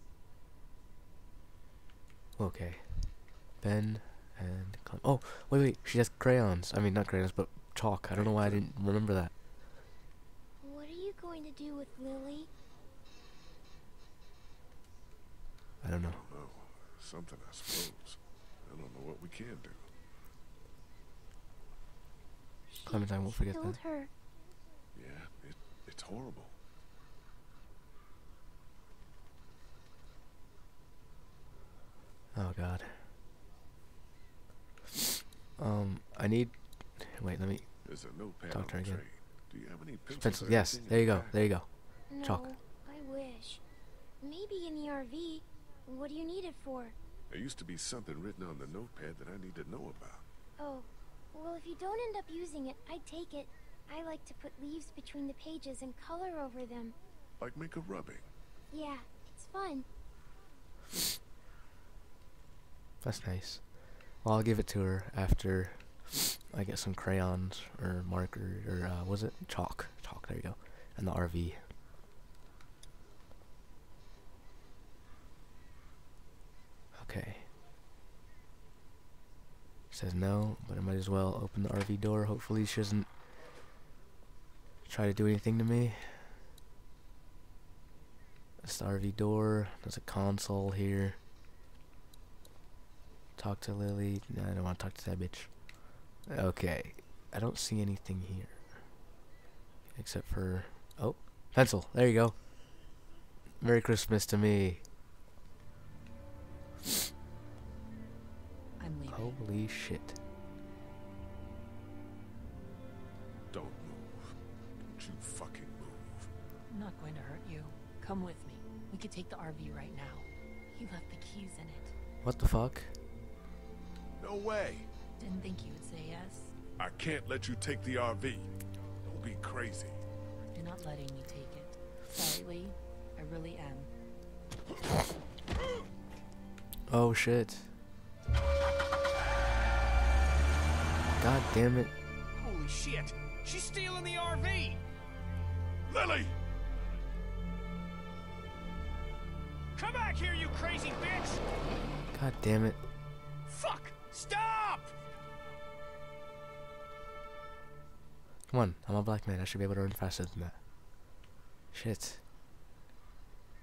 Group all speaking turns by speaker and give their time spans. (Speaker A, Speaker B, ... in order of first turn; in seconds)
Speaker A: 2.4-9.3, 15.8-16.2, 22.9-23.8, 32.3-33.1, 35.6-37.7, 38.2-39.0, 40.1-42.5, 63.0-71.7, 76.9-77.5, 79.9-83.2, 84.8-86.4, 88.6-91.2, 93.4-98.9, 99.9-102.6, 103.6-104.8, 109.1-110.2, 122.2-123.0, 136.9-137.7, 141.2-141.9, 152.1-152.8, 158.5-160.6, 161.7-162.2
Speaker B: 8.1-8.7, 16.1-19.9, 24.9-26.6, 37.9-41.6, 47.3-50.2, 57.4-58.2, 113.5-114.3, 115.0-116.3, 124.2-124.9, 126.8-128.5, 129.0-130.0, 145.9-146.3
Speaker C: 10.6-12.5, 22.7-24.1, 42.1-43.6, 44.2-47.0, 50.6-57.0, 58.7-59.9
Speaker D: 108.8-109.4, 116.7-121.9, 125.2-126.5, 130.5-133.9
Speaker E: 142.4-144.8, 149.7-151.4, 153.4-154.9